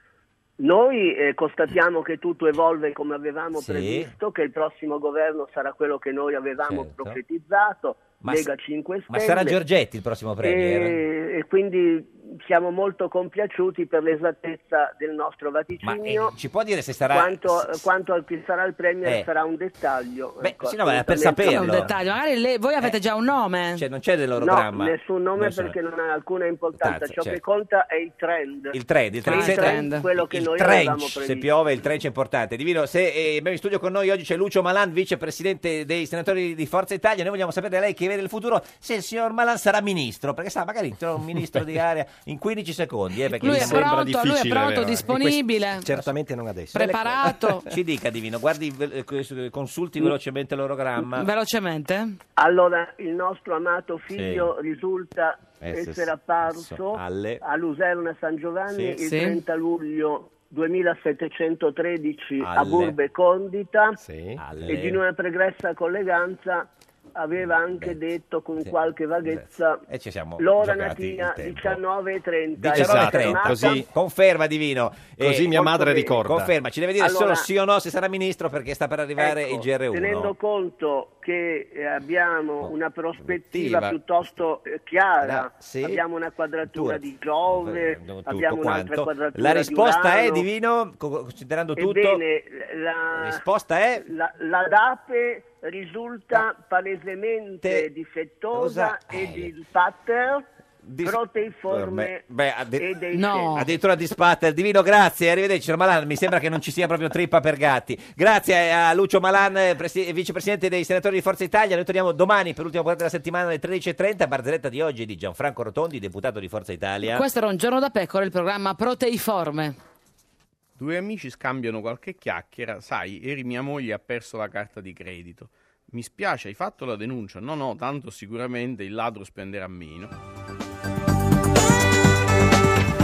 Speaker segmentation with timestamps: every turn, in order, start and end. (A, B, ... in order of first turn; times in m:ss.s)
0:00.6-0:09.6 A
0:03.6-0:04.1 B
0:06.6-0:07.2 B
0:08.2-0:08.5 B
0:09.1-0:11.0 B
0:10.4-0:16.4 A
0:15.8-0:17.9 B
0:17.1-0:21.9 A
0:19.0-0:19.3 B
0:20.4-0:22.0 B
0:21.3-0:23.8 C
0:23.8-0:25.8 B
0:24.4-0:31.5 A
0:26.8-0:27.4 B
0:28.7-0:43.9 B
0:29.2-0:30.1 C
0:43.4-0:47.6 D
0:43.4-0:45.9 C
0:46.7-0:47.7 C
0:47.7-0:51.3 B
0:51.0-0:52.2 C
0:52.4-1:04.0 A
0:54.1-0:54.5 B
0:55.6-0:57.4 B
0:58.7-0:59.0 B
0:59.0-0:59.4 C
1:02.4-1:03.0 B
1:04.0-1:04.4 D
1:04.4-1:05.0 B
1:04.7-1:09.8 A
1:07.7-1:08.0 B
1:08.6-1:11.8 B
1:10.4-1:13.8 A
1:12.6-1:20.3 B
1:12.7-1:13.9 D
1:15.2-1:16.5 D
1:15.6-1:16.1 A
1:17.0-1:17.5 A
1:19.2-1:30.5 A
1:22.6-1:24.0 B
1:25.2-1:26.0 B
1:26.6-1:32.2 B
1:31.8-1:33.4 A
1:33.1-1:34.0 B
1:34.0-1:40.5 A
1:38.5-1:39.5 B
1:40.8-1:42.8 B
1:41.0-1:42.3 A
1:42.8-1:43.6 A
1:43.1-1:43.7 C
1:43.5-1:57.3 B
1:57.1-1:59.8 C
2:00.8-2:10.1 E